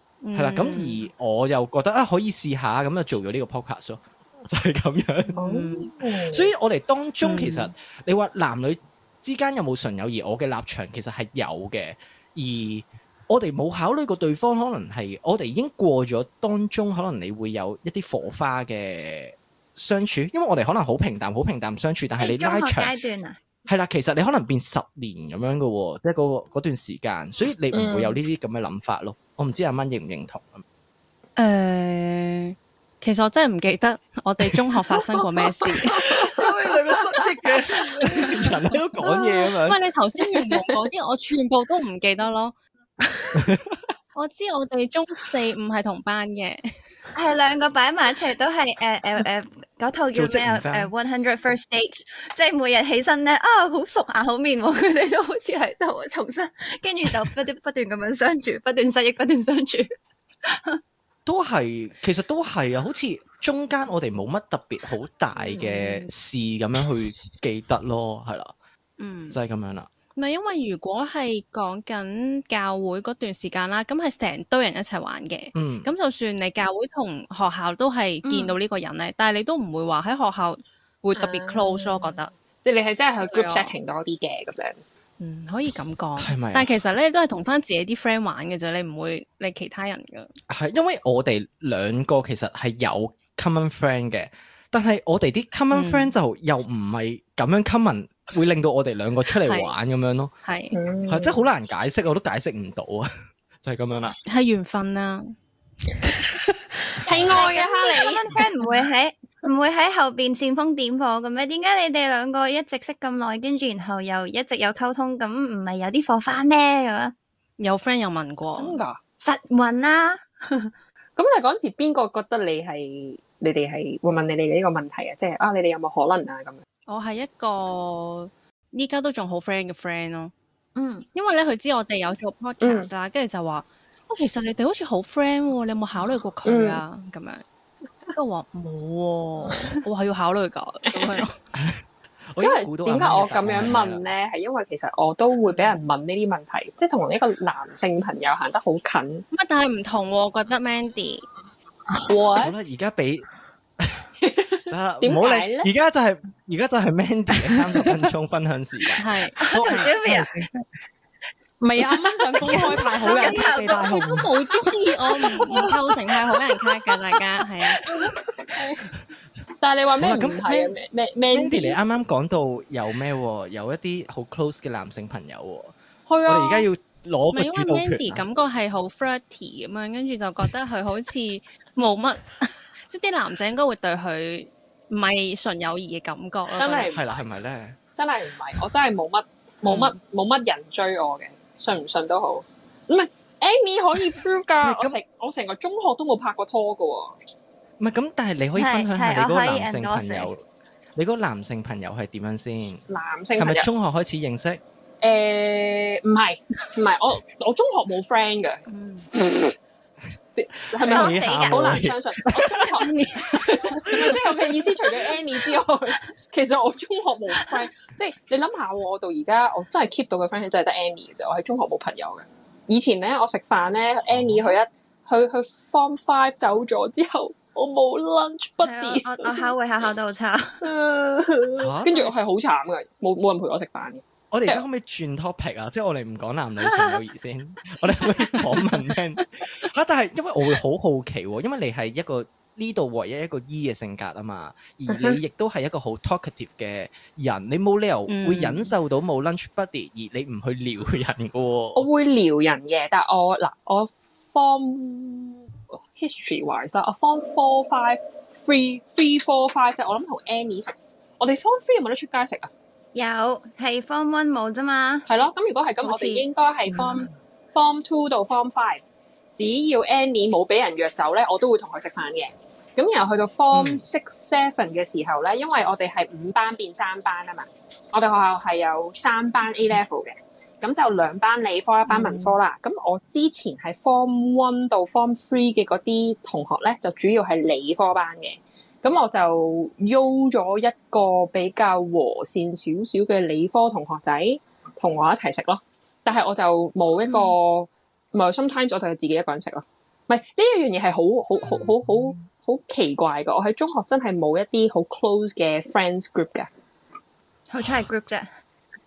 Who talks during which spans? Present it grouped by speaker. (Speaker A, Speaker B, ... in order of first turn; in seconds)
Speaker A: 0.2-1.1, 5.3-5.9, 7.2-7.7, 31.4-36.1, 38.2-38.5, 39.0-42.5, 44.1-46.6, 65.4-66.1, 69.0-69.4, 70.2-82.3, 83.2-83.7, 85.2-90.3, 95.7-96.1, 99.4-99.7, 100.5-100.8, 104.3-105.3, 117.6-118.8, 126.9-130.3, 131.1-137.4, 138.1-141.4, 149.3-151.3, 159.0-160.0, 163.0-167.8, 177.3-186.9, 208.7-209.1, 212.8-214.1, 248.1-248.7, 281.9-282.3
Speaker B: 0.3-5.4, 6.3-22.9, 23.7-30.6, 35.9-39.8, 43.3-43.8, 50.1-50.9, 61.3-68.5, 69.3-69.9, 75.5-75.9, 86.2-86.7, 90.5-100.3, 101.1-103.1, 103.6-104.2, 141.5-144.0, 152.4-153.3, 153.8-154.1, 154.7-160.5, 170.0-170.8, 171.3-178.2, 186.6-187.8, 194.6-195.0, 197.8-200.4, 201.0-202.8, 203.4-204.6, 210.7-212.8, 224.1-224.5, 231.6-232.1, 234.3-251.9, 273.5-273.8
Speaker C: 5.3-6.5, 27.7-28.2, 36.1-36.5, 40.3-40.8, 81.2-84.8, 100.7-101.4, 107.0-108.4, 118.5-119.0, 121.2-126.6, 132.6-132.9, 136.4-136.8, 140.9-141.2, 142.4-149.2, 152.1-152.7, 154.2-155.7, 168.0-168.8, 169.6-171.8, 176.1-176.7, 186.6-187.1, 187.9-197.2, 202.9-203.7, 205.0-208.6, 209.2-209.5, 210.4-229.5, 230.6-234.6, 244.9-245.2, 251.8-262.5, 265.1-268.8, 269.4-306.5
Speaker D: 22.2-23.4, 47.1-59.9, 60.5-60.8, 78.2-78.6, 107.3-117.1, 119.2-120.7, 130.8-131.1, 159.4-160.4, 162.4-164.1, 198.6-200.3, 210.8-211.7, 228.6-230.7, 262.9-265.1, 265.8-266.2, 307.5-308.3
Speaker E: 161.6-164.3